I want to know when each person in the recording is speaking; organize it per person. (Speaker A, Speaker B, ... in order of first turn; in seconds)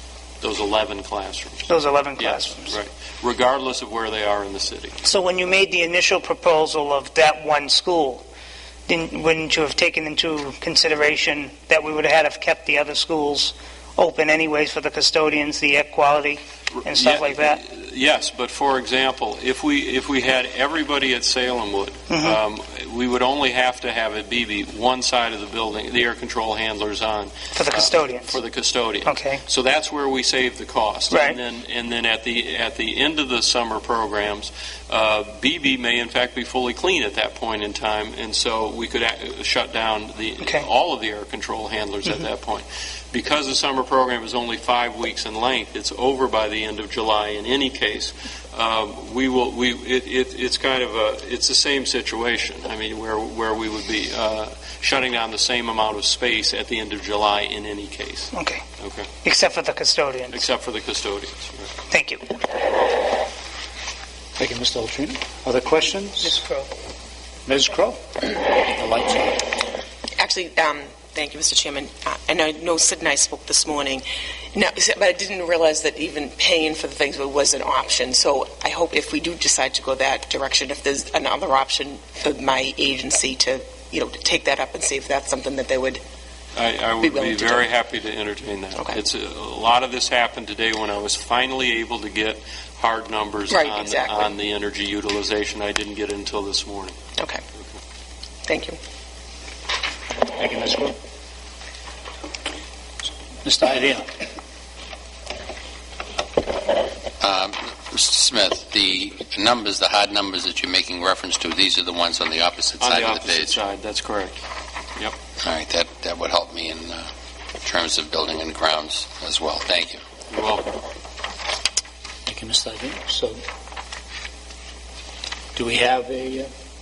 Speaker A: 0.4-5.0, 16.8-59.1, 60.3-61.7, 86.5-97.0, 112.8-114.3, 120.3-120.7
Speaker B: 1.7-2.7, 5.0-8.2, 8.9-17.6, 22.1-22.4, 27.6-28.4, 29.0-29.4, 31.1-31.4, 40.4-40.6, 58.3-58.6, 59.2-60.4, 61.9-62.4, 66.2-66.7
Speaker C: 64.4-66.4, 67.5-69.5, 100.3-100.9, 103.4-104.1, 122.3-123.4, 125.5-126.5
Speaker D: 70.2-86.0, 87.0-87.7, 93.5-94.3, 98.5-98.8
Speaker E: 107.2-113.6, 115.4-117.1, 117.6-120.0